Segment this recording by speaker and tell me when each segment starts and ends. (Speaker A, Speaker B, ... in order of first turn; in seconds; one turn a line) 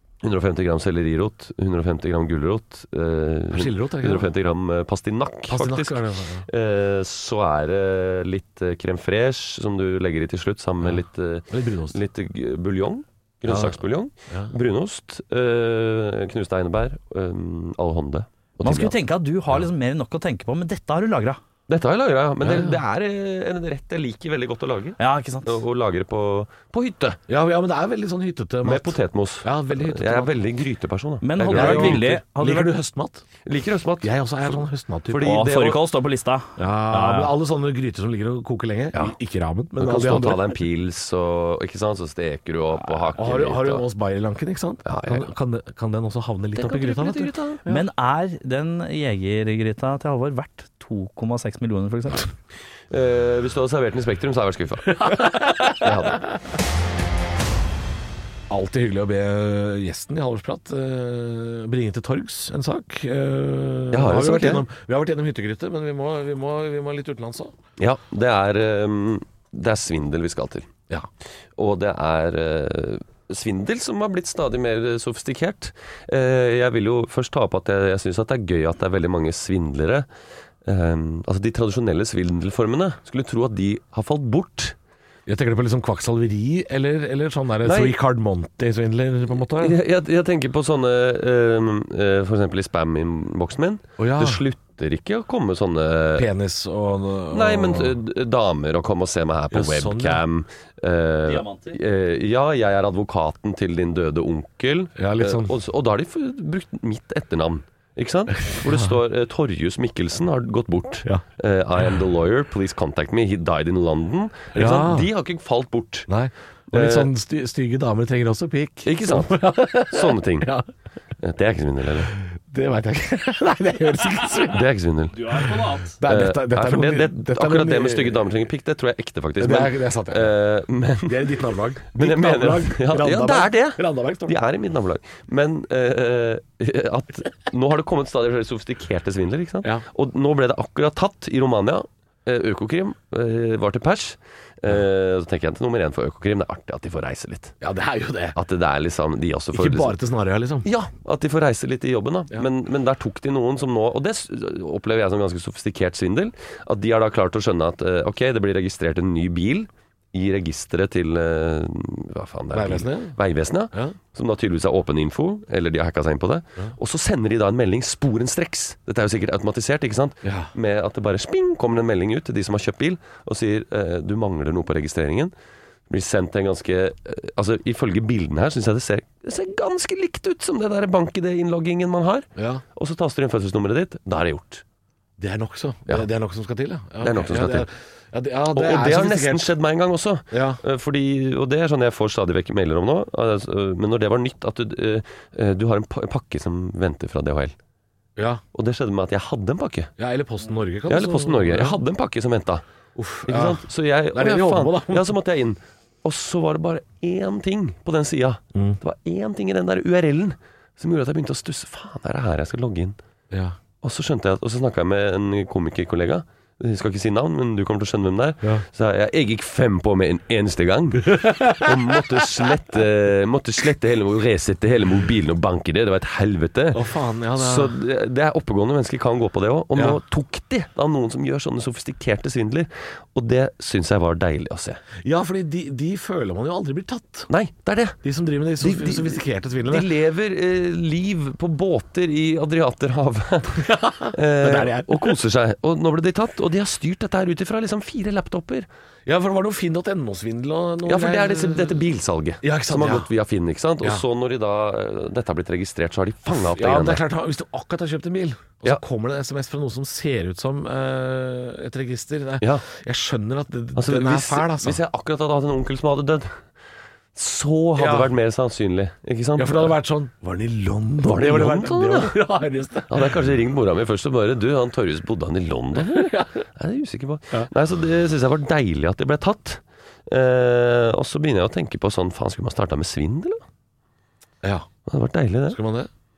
Speaker A: 0.2-18.9
Speaker B: 3.5-4.3
Speaker B: 5.5-6.5
Speaker B: 10.8-12.0
Speaker B: 13.5-14.6
Speaker C: 18.6-21.4
Speaker A: 21.7-27.2
Speaker B: 22.4-22.8
Speaker C: 25.0-25.6
Speaker B: 27.3-30.4
Speaker A: 28.6-32.1
Speaker C: 31.2-32.8
Speaker B: 31.4-33.2
Speaker A: 33.4-34.1
Speaker B: 34.0-35.4
Speaker A: 35.1-35.8
Speaker C: 35.2-37.3
Speaker B: 36.6-40.5
Speaker A: 39.8-43.9
Speaker B: 43.1-47.8
Speaker A: 44.9-45.3
Speaker A: 46.5-47.6
Speaker C: 47.7-52.3
Speaker A: 52.9-56.2
Speaker B: 55.0-56.2
Speaker B: 58.5-67.5
Speaker A: 63.9-64.7
Speaker A: 67.8-70.7
Speaker A: 71.6-80.1
Speaker A: 80.6-84.8
Speaker B: 85.3-89.8
Speaker A: 87.6-88.0
Speaker A: 89.6-96.3
Speaker B: 94.0-94.4
Speaker B: 96.2-98.0
Speaker A: 97.3-116.1
Speaker B: 99.5-100.2
Speaker C: 101.2-101.8
Speaker B: 105.0-105.5
Speaker B: 108.4-108.9
Speaker B: 114.5-115.1
Speaker B: 116.1-120.7
Speaker A: 116.7-117.1
Speaker A: 118.8-120.5
Speaker A: 121.2-122.1
Speaker B: 122.1-124.7
Speaker A: 124.5-125.5
Speaker C: 125.1-126.0
Speaker B: 125.3-128.3
Speaker A: 126.0-131.4
Speaker B: 129.4-130.3
Speaker B: 131.1-134.4
Speaker A: 131.9-147.5
Speaker B: 147.6-148.4
Speaker A: 148.3-149.9
Speaker B: 149.5-150.7
Speaker A: 150.6-175.3
Speaker B: 162.5-163.2
Speaker B: 163.7-164.0
Speaker B: 170.2-170.5
Speaker A: 175.9-184.6
Speaker B: 182.4-182.6
Speaker B: 185.2-189.6
Speaker A: 187.0-187.7
Speaker A: 188.5-197.6
Speaker B: 190.3-190.6
Speaker B: 198.2-198.4
Speaker A: 198.5-199.9
Speaker B: 200.0-201.8
Speaker A: 200.9-202.6
Speaker B: 202.9-205.2
Speaker A: 203.2-213.0
Speaker B: 208.5-208.8
Speaker A: 213.8-234.8
Speaker B: 221.0-222.2
Speaker B: 226.7-227.7
Speaker B: 229.7-230.0
Speaker B: 235.0-237.3
Speaker A: 237.3-238.0
Speaker B: 238.0-239.9
Speaker A: 238.6-248.7
Speaker B: 243.5-245.2
Speaker B: 249.1-251.8
Speaker A: 250.8-257.0
Speaker B: 252.4-253.1
Speaker B: 256.3-264.8
Speaker A: 262.4-262.6
Speaker A: 263.8-266.4
Speaker A: 267.1-269.8
Speaker B: 267.8-268.1
Speaker B: 269.4-273.2
Speaker A: 271.0-272.2
Speaker A: 272.9-283.4
Speaker B: 275.8-276.4
Speaker B: 284.4-284.7
Speaker A: 284.9-285.6
Speaker B: 285.5-285.9